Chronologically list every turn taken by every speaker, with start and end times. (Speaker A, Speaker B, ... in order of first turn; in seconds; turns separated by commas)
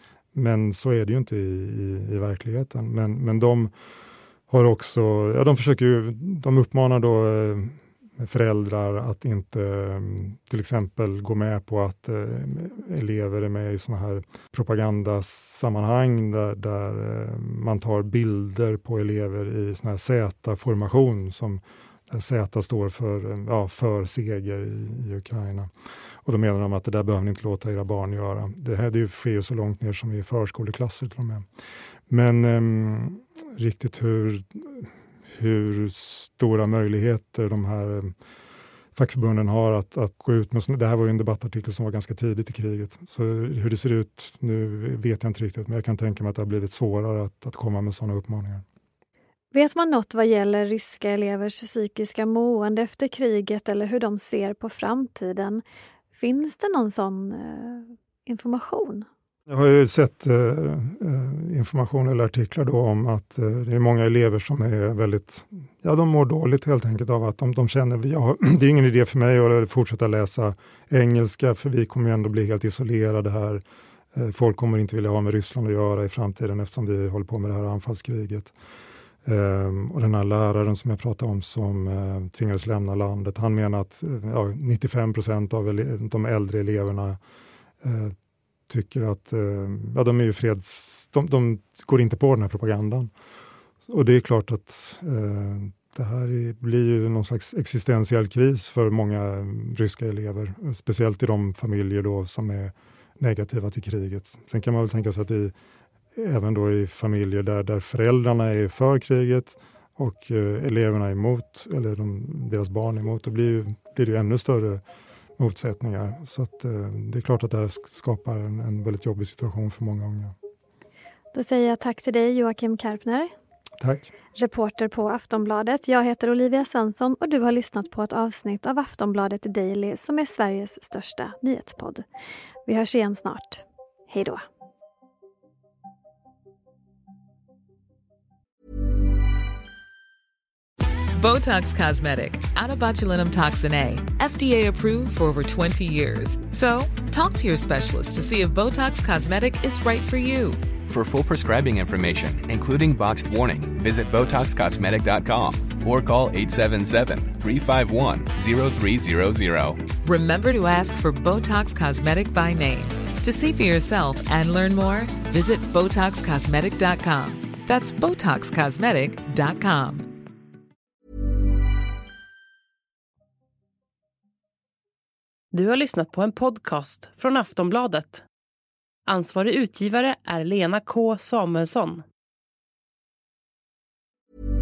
Speaker A: 0.3-3.7, Speaker A: 4.5-25.7, Speaker A: 26.2-31.4, Speaker A: 32.1-38.1, Speaker A: 39.0-48.6, Speaker B: 49.5-55.6, Speaker B: 56.1-59.1, Speaker A: 59.5-73.6, Speaker A: 74.1-78.5, Speaker A: 79.2-87.2, Speaker A: 87.8-88.2, Speaker A: 88.7-93.1, Speaker A: 93.8-105.5, Speaker A: 106.2-114.8, Speaker A: 115.4-120.3, Speaker B: 121.3-123.3, Speaker A: 123.8-124.1, Speaker B: 124.3-132.1, Speaker B: 132.7-134.4, Speaker C: 141.2-150.6, Speaker D: 150.9-159.8, Speaker C: 160.0-170.1, Speaker E: 175.5-178.2, Speaker E: 179.1-182.0